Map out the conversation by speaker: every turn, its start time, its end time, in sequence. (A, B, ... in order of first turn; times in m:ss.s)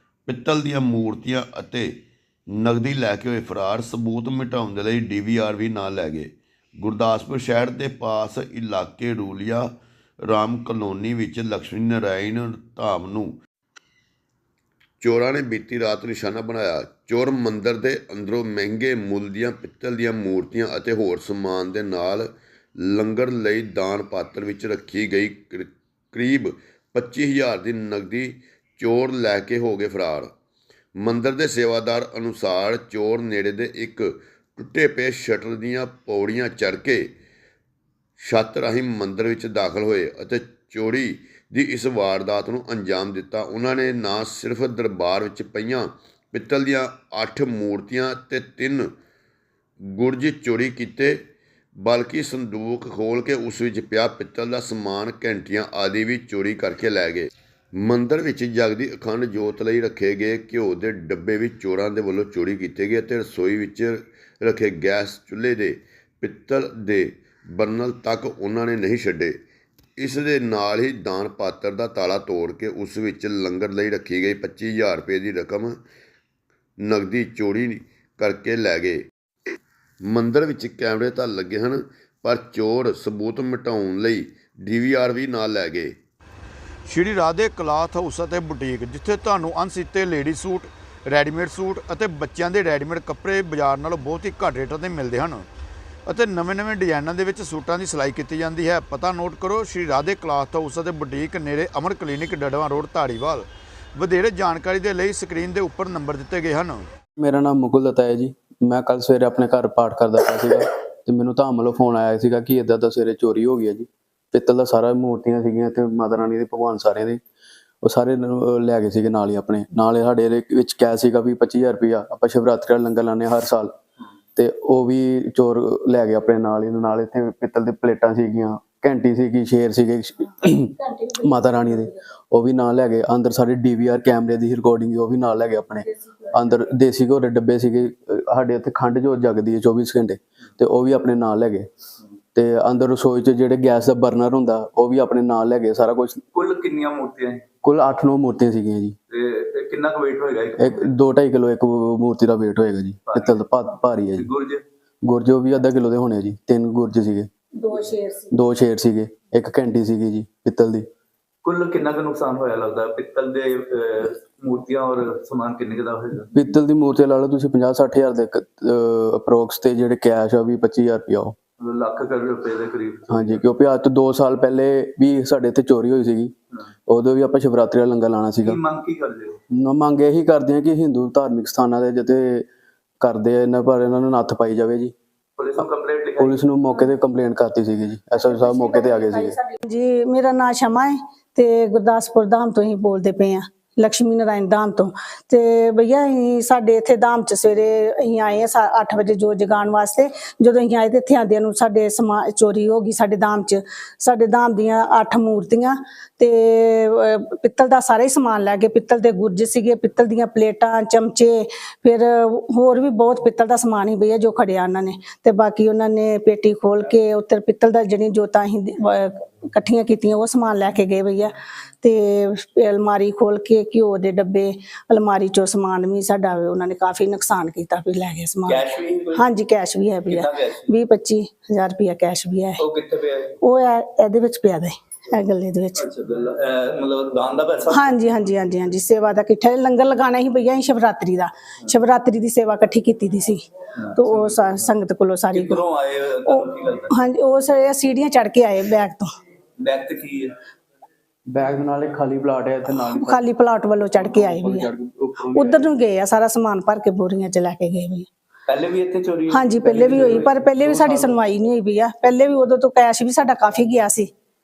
0:00.3-0:01.9 A
0:02.5-0:09.7 A
0:10.2-0:13.4 A
0:15.0-0:30.3 A
0:31.0-0:37.1 A
0:38.2-0:48.9 A
0:50.0-0:51.2 A
0:51.8-1:09.4 A
1:10.0-1:15.8 A
1:16.8-1:19.0 A
1:20.1-1:26.0 A
1:26.9-1:35.4 B
1:36.1-1:46.8 B
1:47.2-1:57.2 C
1:57.8-2:03.7 C
2:04.4-2:21.7 C
2:10.9-2:11.4 D
2:22.3-2:26.2 C
2:26.3-2:27.4 E
2:27.6-2:29.0 C
2:29.1-2:30.9 E
2:30.6-2:34.3 C
2:33.1-2:33.4 E
2:34.2-2:34.6 E
2:35.0-2:37.3 C
2:37.6-2:38.3 D
2:38.3-2:40.8 C
2:41.4-2:46.3 E
2:46.3-2:51.4 C
2:51.6-2:53.4 E
2:53.1-2:56.3 C
2:56.9-2:58.6 C
2:58.4-2:59.4 E
2:59.5-3:02.4 C
3:03.0-3:04.9 C
3:05.4-3:06.4 E
3:06.2-3:09.4 C
3:08.3-3:48.6 D
3:48.5-3:49.2 E
3:49.2-3:52.6 D
3:50.1-3:50.7 E
3:52.6-3:53.3 E
3:53.4-3:55.8 D
3:55.8-3:57.9 E
3:57.7-4:03.4 D
4:03.9-4:04.4 E
4:03.9-4:05.6 D
4:05.3-4:06.9 E
4:06.3-4:09.1 D
4:09.6-4:10.3 E
4:11.3-4:13.2 C
4:12.8-4:14.7 D
4:14.0-4:15.8 C
4:15.3-4:18.1 D
4:18.5-4:20.3 E
4:19.3-4:24.1 D
4:19.6-4:21.2 C